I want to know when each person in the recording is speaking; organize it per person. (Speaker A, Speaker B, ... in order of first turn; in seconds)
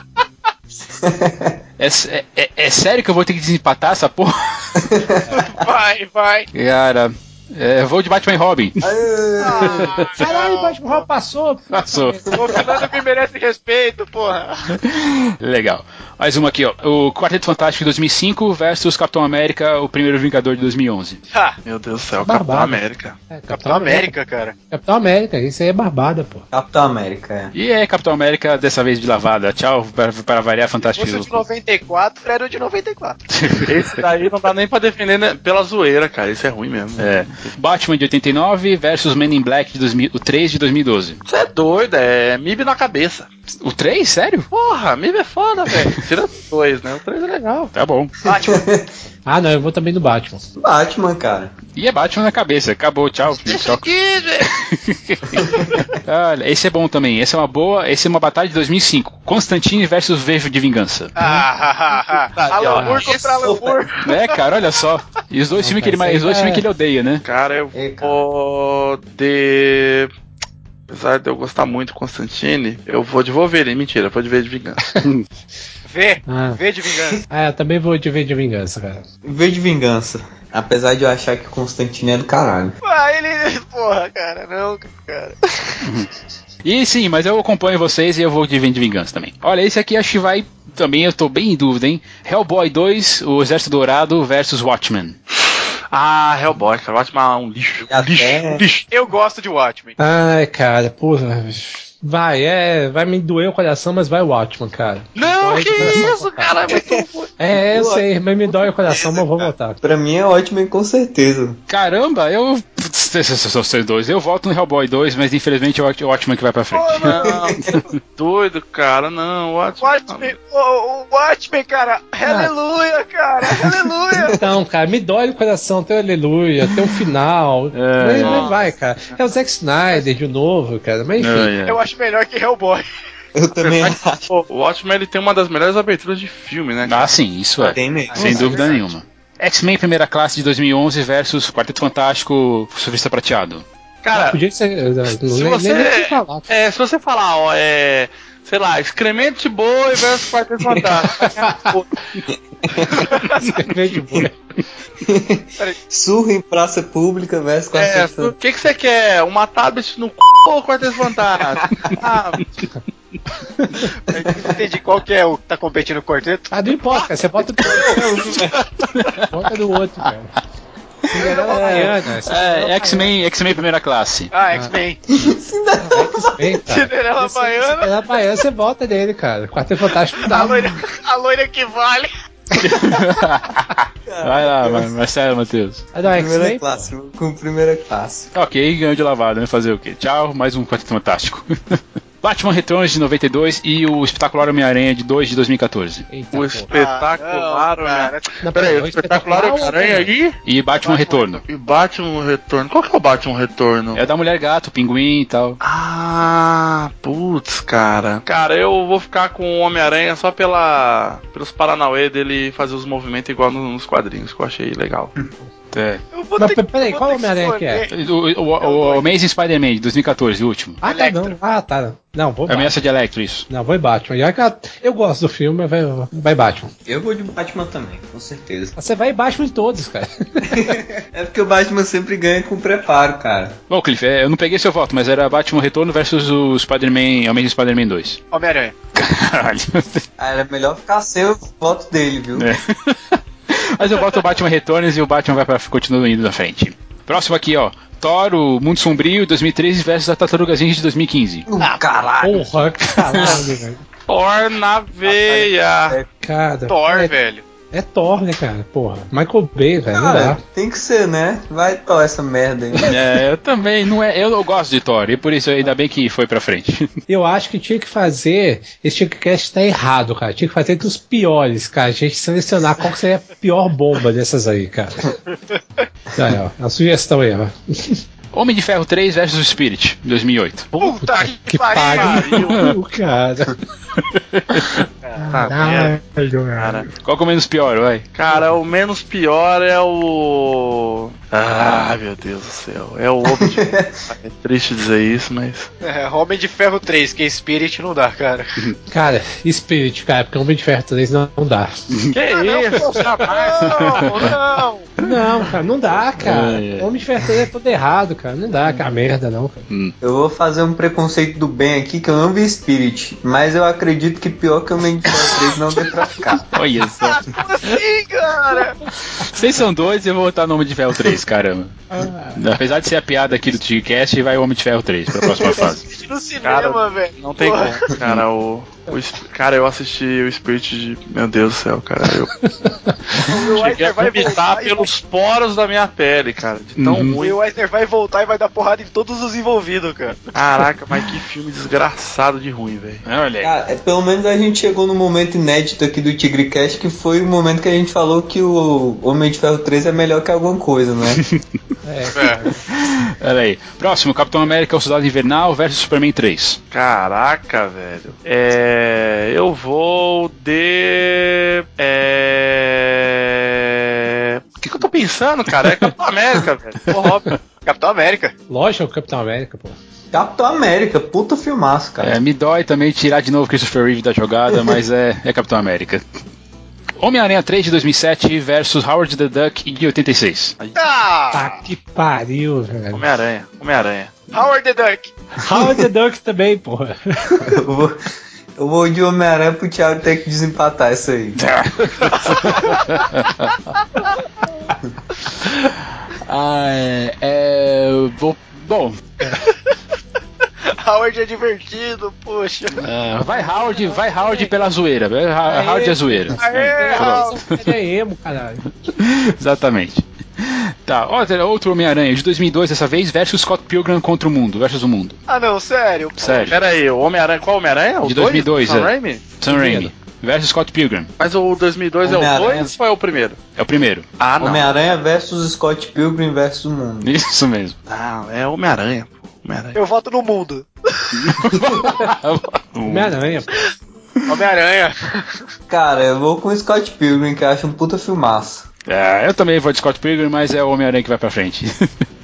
Speaker A: 0.9-1.6, 4.8-5.4, 8.8-10.0, 12.3-12.6, 26.5-27.5, 48.3-48.9, 50.6-51.5, 63.4-63.8, 67.7-68.2, 79.2-82.8, 97.9-98.6, 106.7-108.1, 109.8-111.6, 117.2-117.8, 124.1-124.4, 133.3-134.3, 137.7-138.7, 152.3-153.1, 155.0-158.3, 161.6-161.9, 167.7-168.6, 175.1-176.6, 184.1-184.9, 186.1-188.3, 226.9-228.8, 230.4-233.6, 240.2-242.5, 251.5-252.5, 255.1-256.1, 259.9-263.0, 293.3-294.0, 310.0-316.5, 325.2-325.5, 343.4-351.2, 370.1-372.2, 387.4-388.0, 388.6-391.4, 422.0-422.7, 424.4-427.1, 435.7-438.7
Speaker B: 1.8-4.7, 6.5-8.9, 9.8-10.1, 11.7-12.2, 14.7-21.2, 27.5-31.4, 33.3-34.0, 37.0-41.2, 43.6-44.5, 47.7-48.1, 51.8-53.9, 54.4-61.1, 64.0-67.2, 85.8-86.1, 86.6-95.2, 111.7-117.2, 127.7-128.5, 131.2-131.8, 136.8-143.7, 169.0-169.3, 171.4-174.3, 182.6-185.9, 188.3-196.1, 200.5-201.4, 203.9-205.6, 215.7-216.0, 217.9-220.8, 222.5-223.5, 233.7-238.2, 238.9-240.0, 242.4-251.4, 253.1-253.4, 262.8-266.9, 278.3-280.7, 284.1-284.7, 287.0-288.1, 291.5-291.9, 301.9-302.2, 303.9-304.3, 306.2-306.9, 316.5-317.8, 319.1-325.9, 336.8-337.2, 343.1-343.5, 352.7-356.6, 372.0-376.0, 377.0-380.6, 391.4-393.5, 395.4-399.0, 402.8-407.6, 409.0-415.2, 416.2-416.6, 418.0-421.1, 423.6-424.1, 427.0-427.8, 431.1-433.2, 438.9-441.9
Speaker C: 5.3-6.5, 9.4-11.1, 12.3-14.8, 21.3-21.6, 23.5-24.6, 30.9-33.2, 48.2-48.7, 61.2-64.4, 75.9-77.2, 82.8-85.8, 98.9-100.0, 109.0-109.4, 116.7-117.5, 119.8-124.4, 131.7-132.8, 164.1-167.1, 167.6-168.0, 171.2-171.9, 174.3-175.0, 176.7-177.9, 180.2-182.1, 196.7-198.3, 200.8-201.4, 216.1-218.0, 218.6-219.1, 220.8-221.4, 238.3-238.8, 251.6-251.9, 256.7-257.4, 280.8-282.4, 285.0-285.3, 295.8-298.5, 302.3-304.9, 317.0-318.8, 325.6-327.9, 333.2-334.9, 337.2-340.3, 352.1-352.5, 367.6-368.3, 380.8-381.5, 384.3-385.1, 392.1-392.8, 400.7-402.9, 406.4-407.4, 415.3-416.6, 429.8-431.4, 434.3-435.4
Speaker D: 10.2-12.3, 22.2-24.1, 24.7-26.5, 49.3-50.4, 65.6-66.6, 76.3-76.6, 77.3-79.0, 100.0-106.7, 107.4-109.8, 122.2-122.5, 124.3-131.5, 144.1-146.5, 151.2-151.6, 153.3-154.3, 163.6-163.9, 166.5-168.2, 169.3-170.3, 171.1-173.1, 175.8-180.7, 185.9-186.9, 196.1-196.7, 198.4-200.1, 216.4-217.9, 220.8-222.8, 223.5-226.7, 228.8-230.8, 252.2-253.8, 256.2-257.1, 257.7-260.4, 267.1-275.1, 276.1-278.0, 280.8-283.6, 285.2-286.9, 298.9-301.7, 305.0-309.6, 321.9-322.4, 332.6-332.9, 351.9-352.5, 368.5-369.8, 381.3-383.0, 385.4-387.5, 403.2-404.4, 405.5-408.7, 419.6-419.9, 432.9-433.6
Speaker E: 21.6-23.2, 33.7-37.1, 41.3-43.3, 44.5-47.7, 53.4-54.5, 62.3-63.5, 67.2-70.1, 70.9-74.8, 95.9-98.9, 105.2-107.3, 117.0-117.6, 118.2-120.3, 128.2-128.6, 133.6-138.9, 144.0-144.4, 145.3-152.0, 157.7-162.6, 196.3-200.4, 201.5-204.1, 205.6-215.1, 254.1-256.0, 281.8-282.6, 285.3-285.9, 286.6-286.9, 288.1-295.7, 302.1-304.3, 326.4-332.4, 333.2-337.4, 340.3-343.1, 356.7-367.3, 382.9-384.1, 416.5-419.3, 421.2-423.4, 424.2-424.7, 427.9-429.8